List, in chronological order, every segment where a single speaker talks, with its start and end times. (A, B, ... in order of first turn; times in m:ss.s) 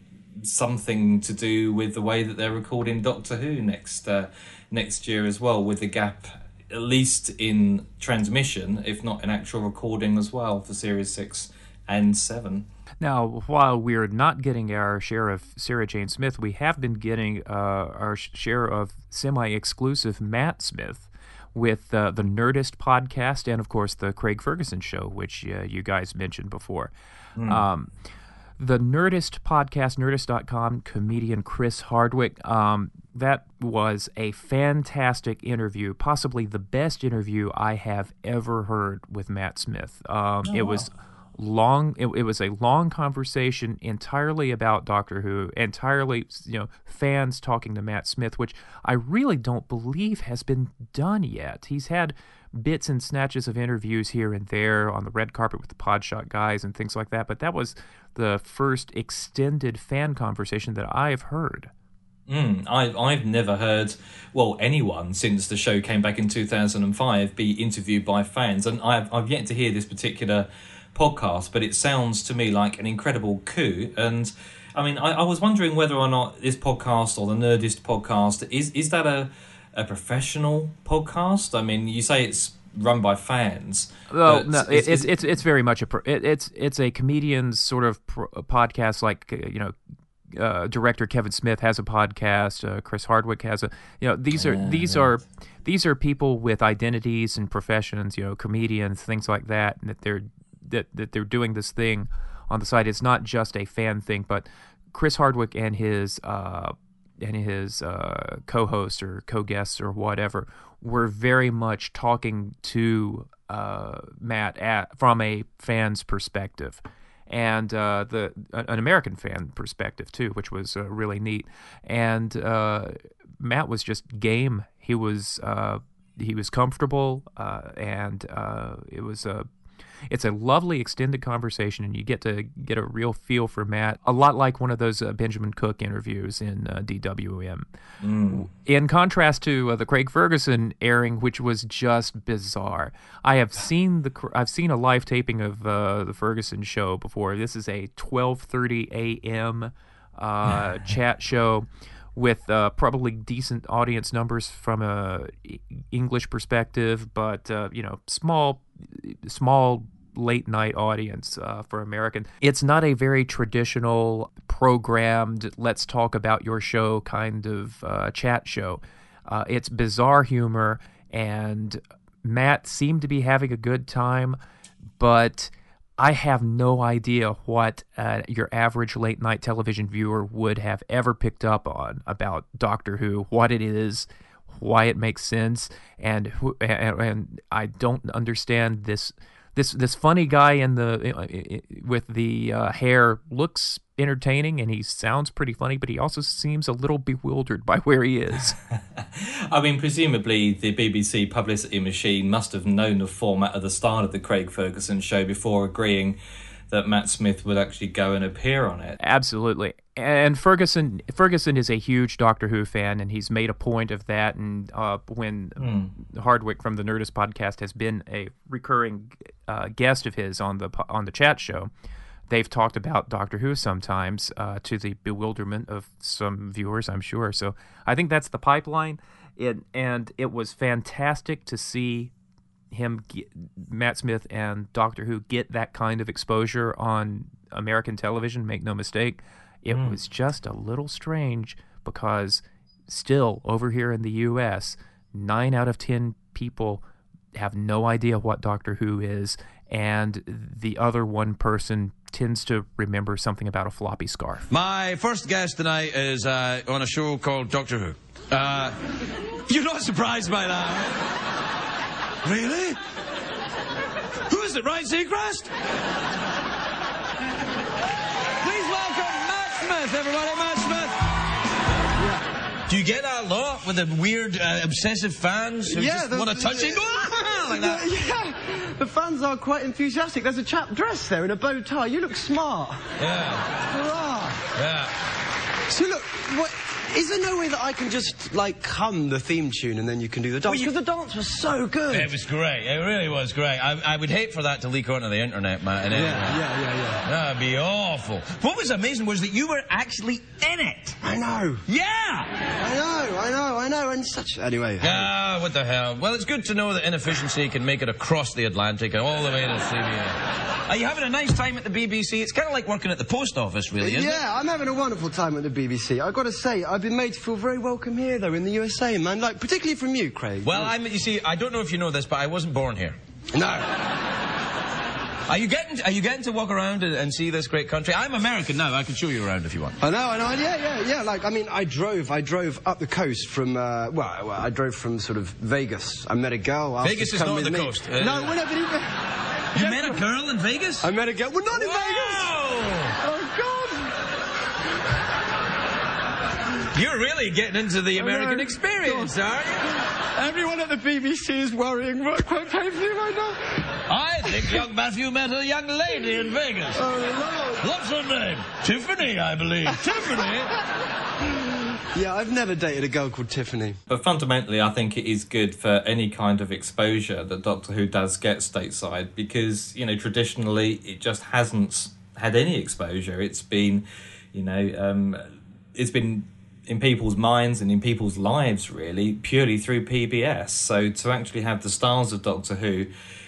0:00.4-0:12.6 A
0:13.0-0:26.9 B
0:27.4-0:27.6 A
0:27.5-0:27.9 B
0:28.6-1:01.7 B
0:40.5-0:40.9 A
1:02.3-1:25.1 A
1:24.1-1:29.7 B
1:30.3-2:09.5 B
1:34.4-1:35.1 A
2:10.1-2:17.6 B
2:18.0-2:18.4 A
2:18.3-2:54.4 B
2:55.0-3:18.6 B
3:19.0-3:26.2 A
3:26.7-3:29.0 A
3:29.0-3:41.7 B
3:35.6-3:35.9 A
3:42.3-3:52.1 B
3:52.7-4:06.8 B
3:59.7-4:00.0 A
4:07.3-4:14.5 B
4:14.5-4:18.8 C
4:19.5-4:21.0 C
4:22.2-4:22.8 C
4:24.3-4:25.5 C
4:28.4-4:31.0 C
4:32.7-4:37.9 C
4:35.6-4:43.0 D
4:43.0-4:43.5 C
4:43.6-4:44.5 D
4:44.6-4:44.9 C
4:45.7-4:52.2 D
4:50.4-4:50.7 C
4:51.9-4:56.5 C
4:55.9-4:57.0 D
4:57.0-5:01.0 C
5:01.0-5:01.6 D
5:01.7-5:02.3 C
5:02.6-5:05.1 D
5:04.8-5:14.2 C
5:13.8-5:20.7 D
5:20.4-5:23.0 C
5:23.3-5:23.7 D
5:25.2-5:29.8 C
5:29.8-5:39.0 D
5:36.8-5:38.4 C
5:39.5-5:40.9 C
5:39.5-5:40.0 D
5:40.8-5:42.3 D
5:41.5-5:43.0 C
5:43.0-5:43.9 D
5:46.7-5:49.7 C
5:47.9-5:49.1 D
5:50.1-5:53.5 D
5:53.9-6:00.5 C
5:54.2-5:54.6 D
5:56.7-5:57.6 D
5:59.6-6:00.3 D
6:01.9-6:03.8 D
6:03.9-6:15.2 A
6:15.7-6:22.9 A